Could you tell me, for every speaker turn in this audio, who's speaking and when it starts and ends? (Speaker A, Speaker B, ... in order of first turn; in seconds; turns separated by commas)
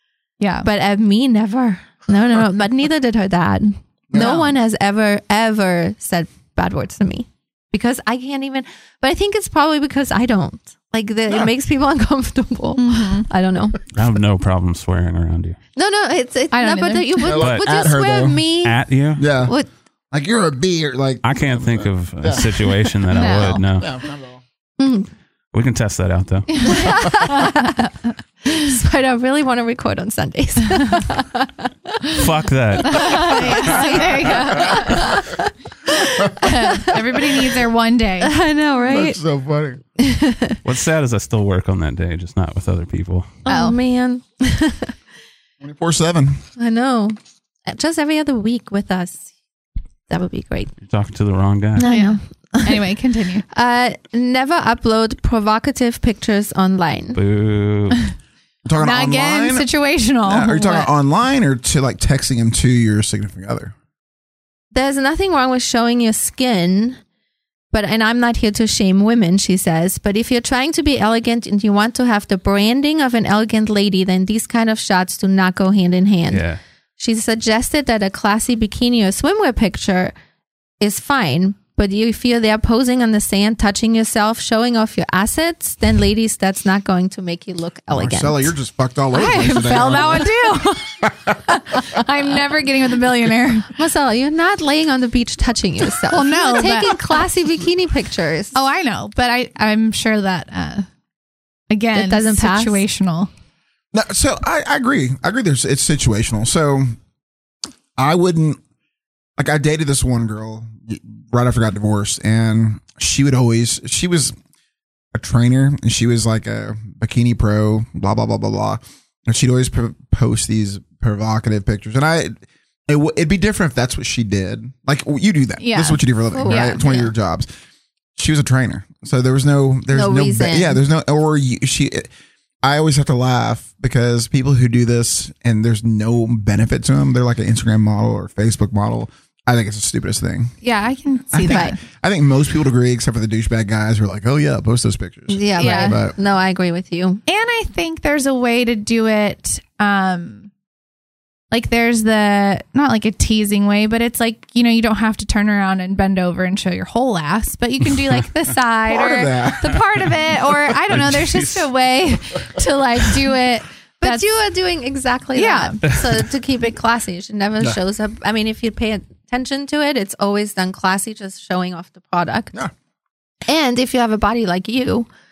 Speaker A: 0.4-0.7, Speaker B: 0.6-13.8, Speaker C: 4.1-4.5, Speaker A: 4.2-4.4, Speaker A: 12.8-13.3, Speaker D: 13.9-15.6, Speaker B: 15.8-18.8, Speaker A: 16.5-17.4, Speaker C: 17.3-18.5, Speaker D: 17.4-17.6, Speaker D: 18.6-19.3, Speaker C: 19.2-19.6, Speaker B: 19.4-19.7, Speaker C: 20.1-24.4, Speaker D: 21.2-23.9, Speaker A: 23.1-23.6, Speaker B: 24.8-25.1, Speaker D: 25.5-26.8, Speaker A: 26.5-27.9, Speaker B: 26.7-27.7, Speaker B: 28.5-32.2, Speaker D: 32.1-33.6, Speaker A: 32.9-35.2, Speaker B: 33.6-37.1, Speaker C: 34.0-35.0, Speaker A: 36.4-38.4, Speaker B: 38.2-39.2, Speaker C: 38.9-39.8, Speaker B: 40.0-40.6, Speaker D: 40.6-43.4, Speaker A: 43.5-43.8, Speaker B: 43.5-44.9, Speaker C: 45.6-46.4, Speaker B: 46.6-47.2, Speaker B: 47.7-49.2, Speaker B: 50.1-50.7, Speaker D: 50.8-51.9, Speaker B: 51.8-52.8, Speaker A: 51.8-53.5, Speaker B: 53.5-57.2, Speaker D: 57.1-58.1, Speaker C: 58.7-59.7, Speaker A: 58.8-60.9, Speaker C: 60.2-63.7, Speaker B: 64.7-67.0, Speaker B: 67.7-76.4, Speaker D: 76.3-76.6, Speaker B: 77.0-80.1, Speaker B: 80.8-88.5, Speaker C: 87.9-91.8, Speaker A: 89.1-93.7, Speaker B: 93.8-98.6, Speaker A: 96.1-97.2, Speaker A: 98.5-100.9, Speaker A: 101.7-103.3, Speaker B: 102.0-102.8, Speaker C: 103.9-106.9, Speaker C: 108.0-108.6, Speaker C: 109.4-114.3, Speaker C: 115.1-127.5, Speaker A: 125.6-126.8, Speaker B: 126.3-127.1, Speaker C: 128.2-132.1, Speaker B: 129.9-130.8, Speaker C: 132.6-140.5, Speaker A: 140.6-141.8, Speaker C: 141.3-146.2, Speaker B: 141.4-141.7, Speaker B: 145.3-147.2, Speaker A: 145.6-146.0, Speaker A: 147.3-150.5, Speaker A: 151.5-164.3, Speaker C: 158.9-161.4, Speaker D: 160.9-161.5, Speaker B: 164.0-172.5, Speaker A: 165.3-165.8, Speaker B: 173.5-175.1